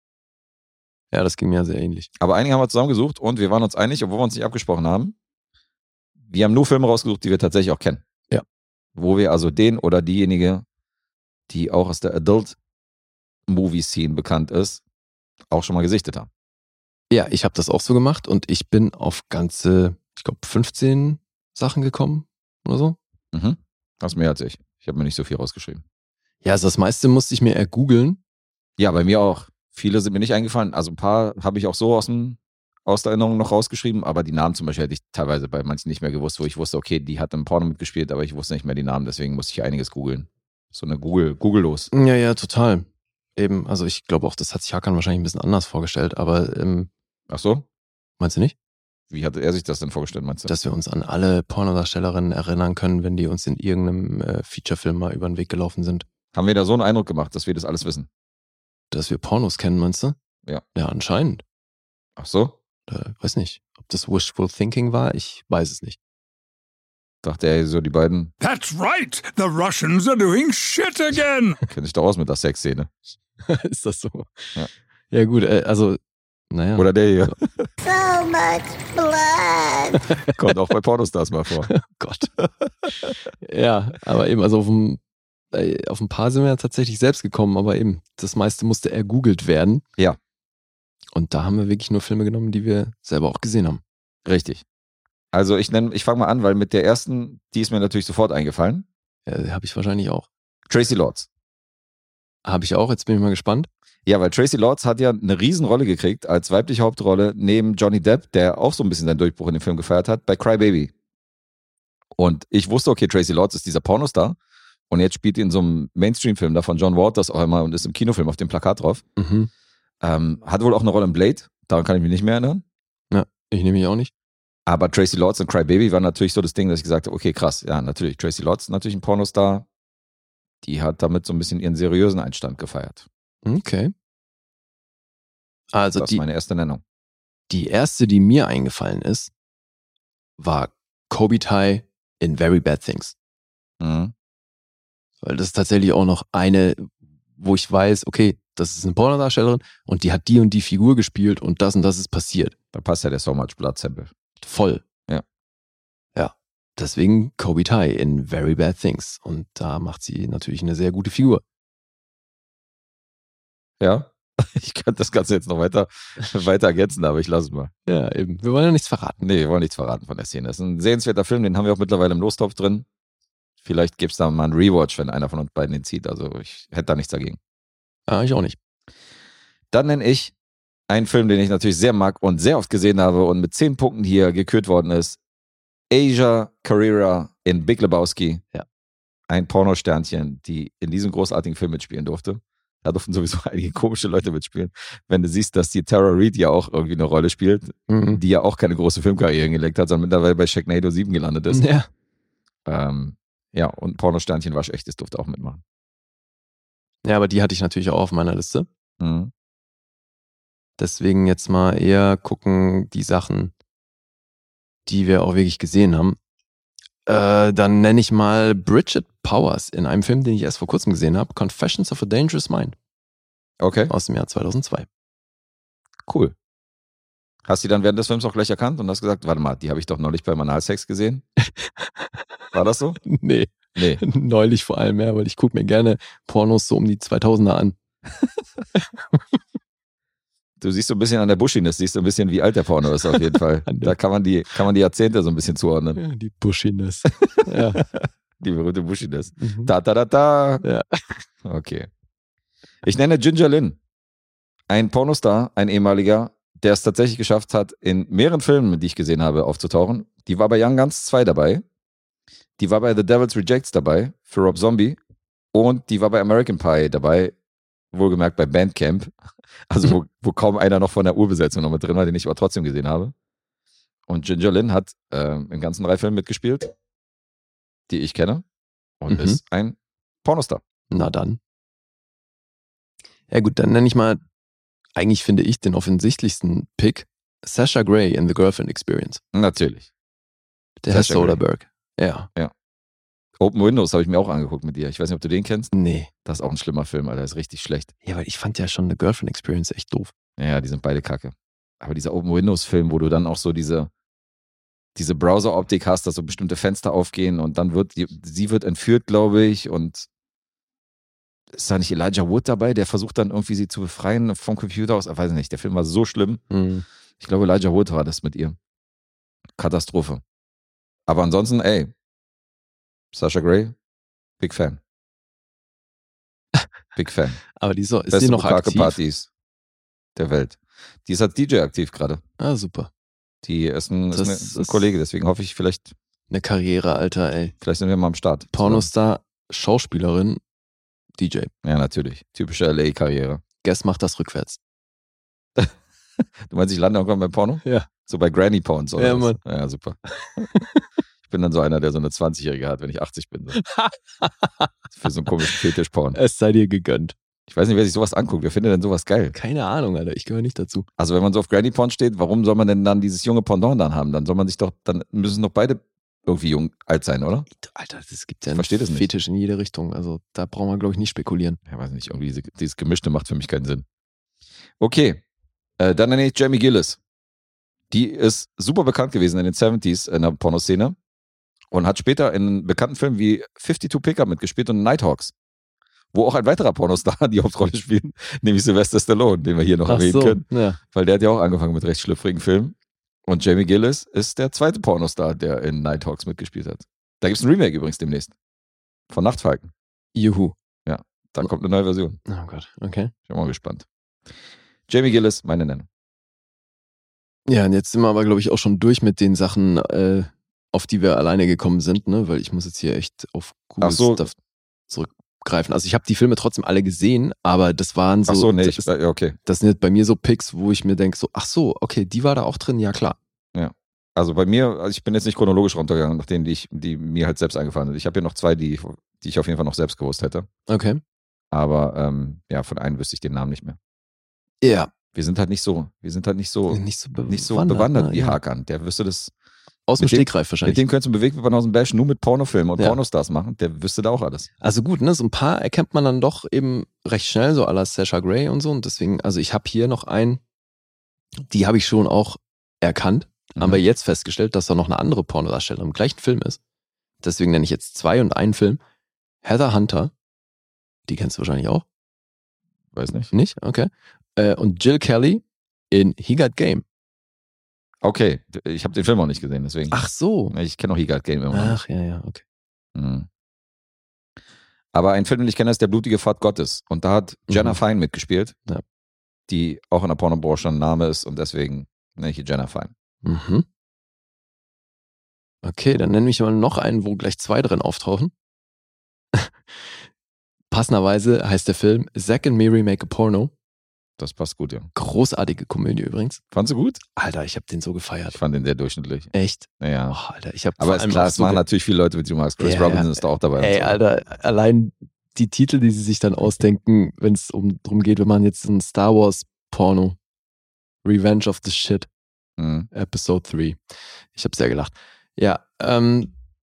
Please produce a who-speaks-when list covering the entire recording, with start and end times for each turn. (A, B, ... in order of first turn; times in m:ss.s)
0:01.1-0:02.1 A
0:02.2-0:05.1 B
0:06.2-0:08.0 B
0:09.0-0:10.6 B
0:11.5-0:12.6 B
0:13.5-0:14.8 B
0:15.5-0:16.3 B
0:17.1-0:23.0 A
0:23.3-0:25.8 B
0:26.4-0:28.2 A
0:28.8-0:41.9 B
0:41.9-0:46.9 A
0:47.3-0:47.6 B
0:48.2-0:48.5 A
0:49.1-0:50.5 B
0:50.5-0:56.0 A
0:56.3-0:58.1 B
0:58.9-1:00.1 A
1:00.7-1:01.4 A
1:02.2-1:02.6 B
1:02.9-1:06.0 A
1:07.2-1:08.3 B
1:08.4-1:11.6 C
1:11.7-1:12.9 B
1:13.5-1:14.3 A
1:15.1-1:16.0 A
1:16.5-1:17.3 A
1:16.8-1:17.7 B
1:17.8-1:20.0 D
1:20.1-1:20.3 A
1:20.3-1:21.7 B
1:21.7-1:22.3 A
1:22.4-1:23.1 B
1:23.4-1:25.0 A
1:25.5-1:29.8 A
1:31.1-1:33.8 A
1:34.2-1:34.6 B
1:35.3-1:38.9 B
1:39.3-1:40.3 A
1:40.7-1:41.3 B
1:42.4-1:43.7 A
1:44.0-1:50.9 B
1:52.2-1:54.4 B
1:54.9-1:59.0 B
1:59.2-1:59.5 A
2:00.0-2:02.6 B
2:03.1-2:04.1 A
2:04.6-2:09.6 B
2:10.6-2:13.0 B
2:13.4-2:13.9 A
2:15.7-2:16.2 A
2:16.0-2:16.8 B
2:17.5-2:19.3 A
2:20.4-2:23.2 A
2:23.8-2:24.1 B
2:25.2-2:32.5 A
2:32.7-2:34.1 B
2:34.4-2:34.8 A
2:36.2-2:41.4 A
2:43.8-2:47.7 B
2:47.8-2:49.2 A
2:49.2-2:52.9 B
2:53.6-2:57.4 B
2:58.1-2:58.6 A
2:59.7-3:00.3 B
3:00.9-3:05.2 B
3:05.9-3:08.4 B
3:09.3-3:21.7 B
3:17.9-3:18.2 A
3:21.5-3:21.9 A
3:22.6-3:25.6 B
3:27.0-3:28.7 A
3:29.0-3:29.3 B
3:30.8-3:33.5 A
3:34.8-3:36.2 A
3:37.1-3:42.8 A
3:43.6-3:43.9 B
3:43.9-3:44.9 A
3:46.1-3:46.3 B
3:47.4-3:51.2 B
3:51.4-3:52.2 A
3:52.5-3:53.0 B
3:53.0-3:57.7 A
3:53.7-3:54.0 B
4:00.6-4:06.0 B
4:03.6-4:04.0 A
4:06.0-4:07.8 A
4:07.2-4:10.6 B
4:09.4-4:09.7 A
4:10.6-4:11.2 A
4:11.4-4:11.9 B
4:12.8-4:13.8 B
4:14.7-4:21.6 B
4:22.6-4:25.0 B
4:25.5-4:27.3 B
4:27.9-4:29.1 B
4:29.7-4:33.1 B
4:34.1-4:36.7 B
4:37.9-4:38.4 B
4:39.0-4:40.6 B
4:39.1-4:39.4 A
4:40.9-4:41.4 A
4:43.3-4:44.2 A
4:45.0-4:49.2 A
4:49.3-4:49.9 B
4:50.8-4:52.3 A
4:50.9-4:51.4 B
4:53.4-4:55.7 B
4:55.7-4:56.1 A
4:56.2-4:57.9 B
4:58.0-5:00.1 A
5:00.4-5:03.9 B
5:05.0-5:10.1 B
5:11.5-5:16.4 B
5:16.5-5:16.8 A
5:17.2-5:18.6 B
5:19.6-5:20.2 B
5:21.1-5:21.9 B
5:23.1-5:23.7 B
5:24.4-5:24.8 B
5:27.0-5:27.4 B
5:27.6-5:29.0 A
5:28.1-5:29.3 B
5:30.2-5:32.2 B
5:32.4-5:32.9 A
5:33.4-5:35.9 B
5:34.1-5:34.8 A
5:36.3-5:37.5 A
5:37.6-5:38.9 B
5:38.5-5:40.4 A
5:41.2-5:41.5 A
5:41.6-5:43.4 B
5:43.6-5:44.6 A
5:46.4-5:50.4 B
5:49.0-5:49.4 A
5:50.4-5:50.8 A
5:51.2-5:53.6 B
5:53.5-5:54.7 A
5:54.9-5:56.2 B
5:56.1-5:57.1 A
5:57.5-5:59.3 B
5:59.3-6:00.9 A
6:01.0-6:07.5 B
6:07.5-6:11.6 A
6:08.5-6:09.1 B
6:11.6-6:13.8 B
6:14.8-6:15.2 B
6:15.8-6:17.0 B
6:17.9-6:21.0 B
6:21.7-6:25.3 B
6:26.1-6:32.7 B
6:29.9-6:30.8 A
6:33.2-6:38.3 B
6:39.1-6:39.7 B
6:40.1-6:40.5 A
6:40.8-6:42.2 B
6:42.3-6:43.1 A
6:43.3-6:43.8 B
6:44.9-6:45.8 B
6:47.5-6:54.3 A
6:53.8-6:54.3 B
6:54.9-6:58.9 A
6:58.3-6:59.4 B
6:59.4-7:03.2 A
7:03.5-7:10.5 B
7:10.7-7:11.0 A
7:11.5-7:13.8 B
7:14.6-7:14.9 A
7:15.1-7:19.3 B
7:16.7-7:18.4 A
7:19.9-7:20.8 A
7:20.0-7:24.5 B
7:24.6-7:30.4 A
7:31.5-7:36.6 A
7:33.6-7:33.8 B
7:37.2-7:38.8 A
7:39.4-7:40.1 A
7:41.1-7:41.8 A
7:42.9-7:43.3 B
7:43.3-7:46.8 A
7:48.0-7:50.0 B
7:49.9-7:50.5 A
7:50.5-7:51.8 B
7:51.5-7:52.4 A
7:52.9-7:53.3 B
7:54.9-7:58.6 B
7:57.5-7:57.8 A
7:59.5-8:02.9 B
8:03.2-8:03.6 A
8:05.6-8:08.3 A
8:09.3-8:10.0 A
8:10.7-8:13.5 A
8:14.2-8:14.9 B
8:14.9-8:16.4 A
8:16.5-8:17.0 B
8:17.2-8:18.4 A
8:18.3-8:20.2 B
8:19.3-8:21.6 A
8:20.8-8:24.0 B
8:22.6-8:30.2 A
8:31.0-8:32.1 A
8:32.6-8:32.9 B
8:32.9-8:33.8 A
8:34.3-8:36.3 A